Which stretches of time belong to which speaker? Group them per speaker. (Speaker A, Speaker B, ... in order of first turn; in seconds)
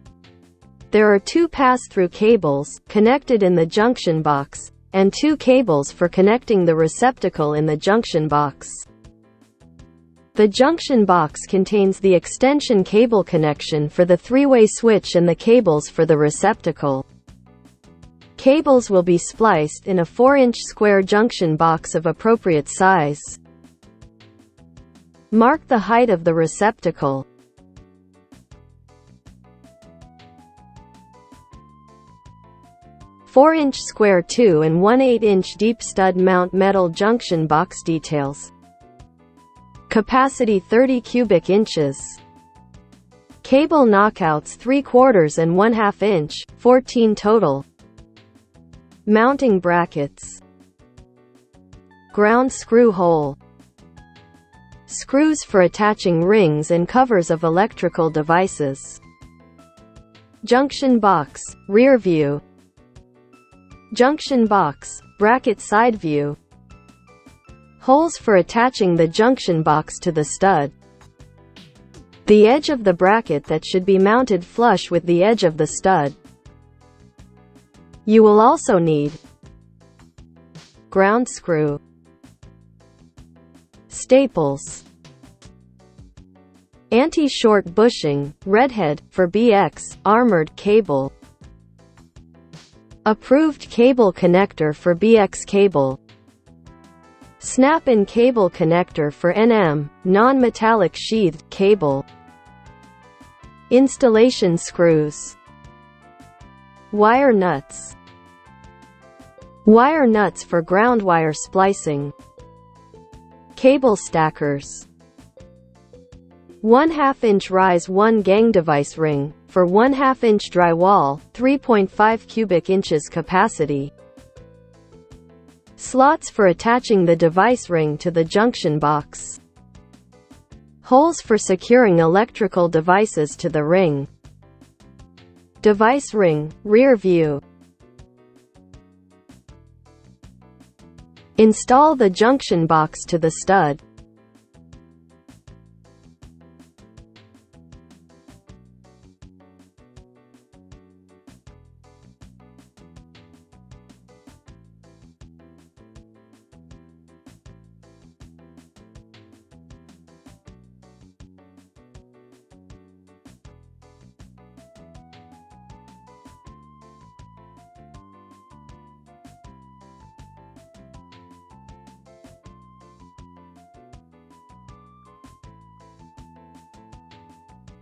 Speaker A: 0.9-8.9, 10.3-17.0, 18.4-23.4, 25.3-27.2, 33.2-38.5, 39.9-42.2, 43.4-47.6, 49.0-50.4, 52.1-53.4, 54.9-59.0, 60.4-62.4, 63.9-66.4, 67.8-70.7, 72.2-76.2, 78.0-79.2, 80.9-81.8, 83.9-84.8, 86.9-91.1, 93.0-96.0, 97.4-102.0, 103.7-105.4, 106.9-108.0, 109.6-112.1, 113.5-114.9, 116.6-123.9, 125.8-129.4, 130.8-134.1, 135.6-137.4, 141.4-143.8